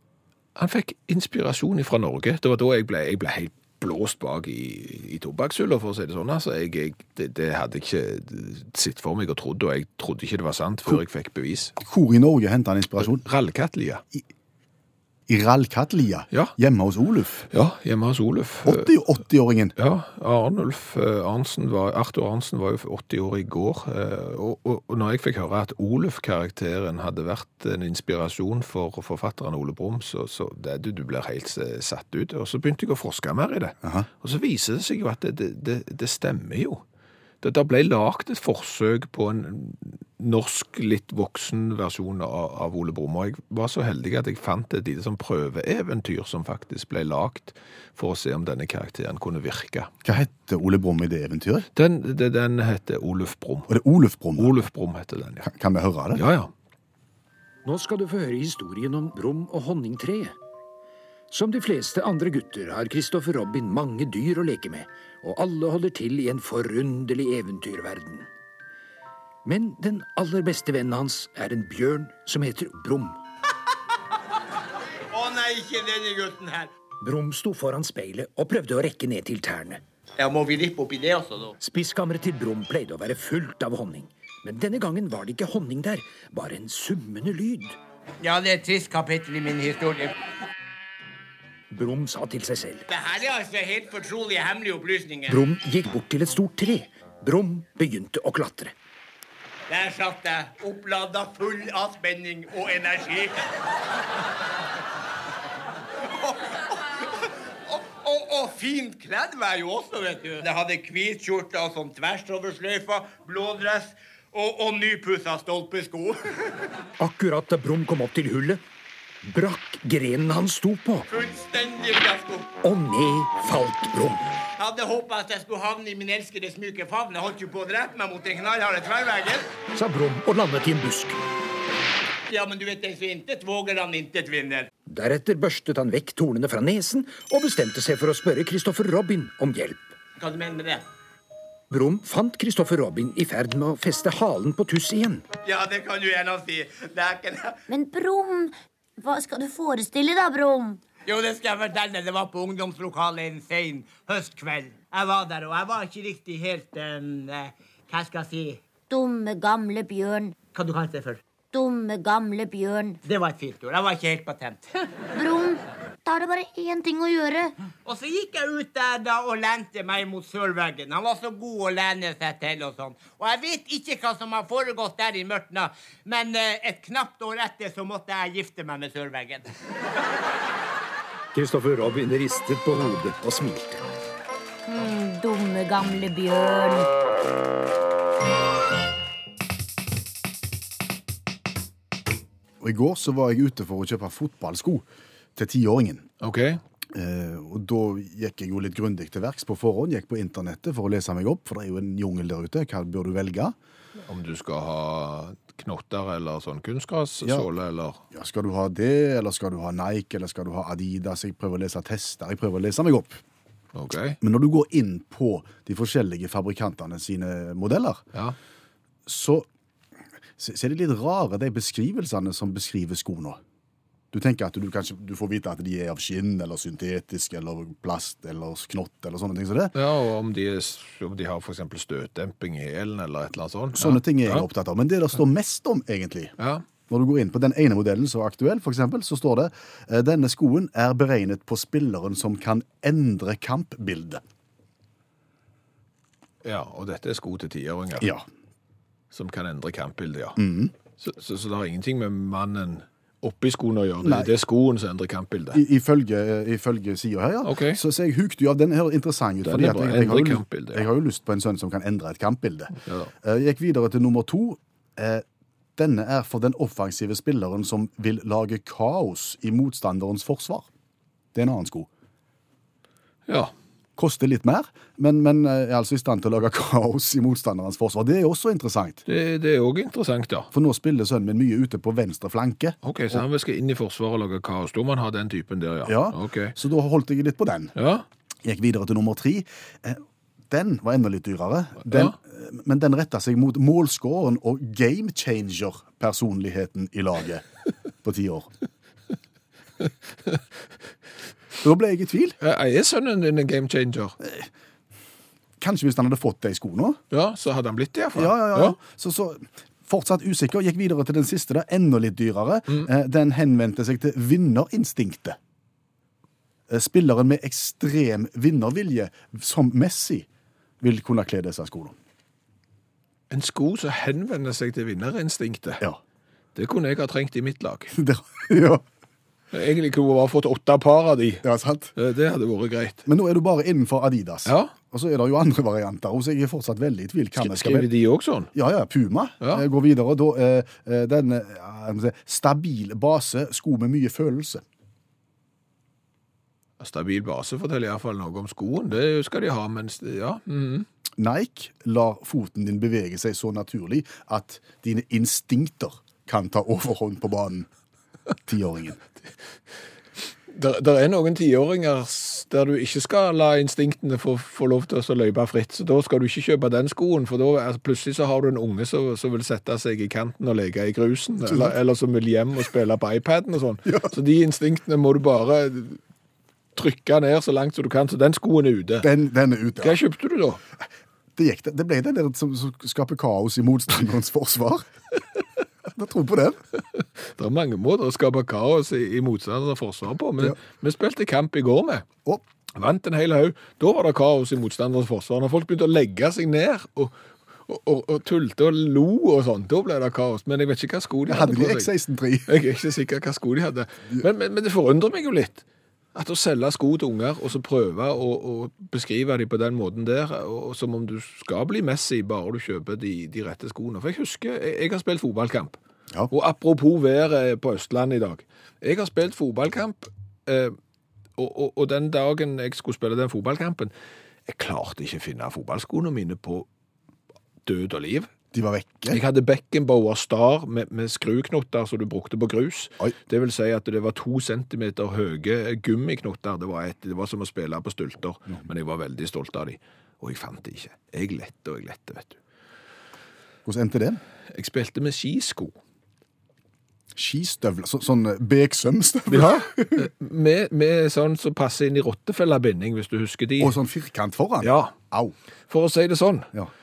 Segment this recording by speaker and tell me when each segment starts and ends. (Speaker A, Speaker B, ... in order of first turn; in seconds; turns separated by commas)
Speaker A: 0.6-11.7, Speaker B: 11.8-13.2, Speaker A: 13.0-14.0, Speaker B: 15.3-17.5, Speaker A: 17.5-18.9, Speaker B: 18.6-19.8, Speaker A: 19.8-36.8, Speaker A: 37.4-49.9, Speaker B: 50.0-51.7, Speaker A: 51.8-53.7, Speaker B: 53.7-54.5, Speaker A: 54.4-55.5, Speaker B: 55.4-56.2, Speaker A: 56.1-56.5, Speaker C: 57.6-60.3, Speaker C: 61.3-68.3, Speaker C: 69.4-73.2, Speaker D: 75.1-76.7, Speaker C: 77.0-79.8, Speaker D: 80.2-81.6, Speaker C: 81.6-87.8, Speaker D: 88.2-90.2, Speaker C: 91.7-92.8, Speaker D: 92.9-95.4, Speaker C: 95.3-98.7, Speaker D: 99.7-103.5, Speaker D: 106.1-116.2, Speaker C: 117.0-118.6, Speaker C: 119.2-121.1, Speaker D: 121.1-122.5, Speaker C: 122.6-124.3, Speaker D: 124.6-129.5, Speaker C: 129.7-131.2, Speaker D: 132.3-134.7, Speaker C: 134.9-139.9, Speaker D: 140.2-140.8, Speaker C: 141.7-145.2, Speaker D: 145.4-147.6, Speaker E: 147.7-150.8, Speaker D: 151.1-158.6, Speaker E: 158.9-160.4, Speaker D: 160.5-161.2, Speaker E: 161.5-163.0, Speaker D: 163.0-164.6, Speaker E: 165.2-167.5, Speaker D: 167.8-179.5, Speaker C: 181.3-183.8, Speaker E: 184.7-186.9, Speaker B: 192.6-194.8, Speaker B: 195.3-196.1, Speaker A: 196.2-196.6, Speaker B: 196.9-203.5, Speaker A: 204.1-208.0, Speaker B: 207.2-207.5, Speaker B: 208.1-213.2, Speaker A: 213.7-214.2, Speaker B: 214.2-218.0, Speaker B: 219.1-219.5, Speaker B: 220.4-223.4, Speaker B: 224.1-229.7, Speaker A: 229.7-234.5, Speaker B: 233.8-236.3, Speaker A: 236.4-236.7, Speaker B: 236.9-244.2, Speaker A: 246.4-248.1, Speaker B: 248.0-248.3, Speaker A: 249.1-250.4, Speaker B: 250.4-250.7, Speaker A: 251.0-255.6, Speaker B: 254.0-254.3, Speaker B: 255.5-265.2, Speaker A: 257.4-257.8, Speaker A: 259.4-260.9, Speaker A: 262.8-263.1, Speaker B: 265.8-270.7, Speaker B: 271.3-271.9, Speaker A: 273.3-273.5, Speaker B: 274.0-279.0, Speaker A: 279.1-280.5, Speaker B: 280.5-283.2, Speaker A: 282.8-286.6, Speaker B: 285.9-287.8, Speaker A: 287.8-288.1, Speaker B: 288.4-297.5, Speaker A: 291.9-292.1, Speaker B: 298.0-298.5, Speaker B: 301.6-302.4, Speaker A: 302.4-304.1, Speaker B: 304.2-304.5, Speaker B: 305.6-307.0, Speaker A: 307.1-308.8, Speaker B: 308.1-315.4, Speaker B: 316.7-320.3, Speaker B: 320.8-322.0, Speaker A: 323.3-325.8, Speaker A: 326.5-327.9, Speaker B: 327.9-328.8, Speaker A: 329.5-333.0, Speaker B: 331.4-331.9, Speaker B: 333.0-337.9, Speaker A: 334.5-334.7, Speaker A: 337.4-338.5, Speaker B: 338.5-344.6, Speaker A: 346.8-350.9, Speaker B: 351.2-357.7, Speaker B: 358.5-359.0, Speaker A: 360.5-376.0, Speaker B: 371.5-371.7, Speaker B: 373.9-374.1, Speaker A: 376.8-379.1, Speaker B: 379.0-380.0, Speaker A: 379.8-380.6, Speaker B: 381.4-384.9, Speaker B: 385.8-386.6, Speaker A: 387.0-392.1, Speaker A: 392.8-401.9, Speaker B: 401.3-402.5, Speaker A: 402.4-415.8, Speaker A: 416.3-420.8, Speaker A: 421.4-423.9, Speaker A: 424.4-426.7, Speaker A: 427.6-428.3, Speaker B: 428.5-429.2, Speaker A: 429.1-442.4, Speaker B: 443.6-444.2, Speaker A: 444.5-445.8, Speaker B: 447.1-450.1, Speaker A: 449.3-453.8, Speaker B: 453.6-455.3, Speaker A: 454.6-454.9, Speaker A: 455.7-456.5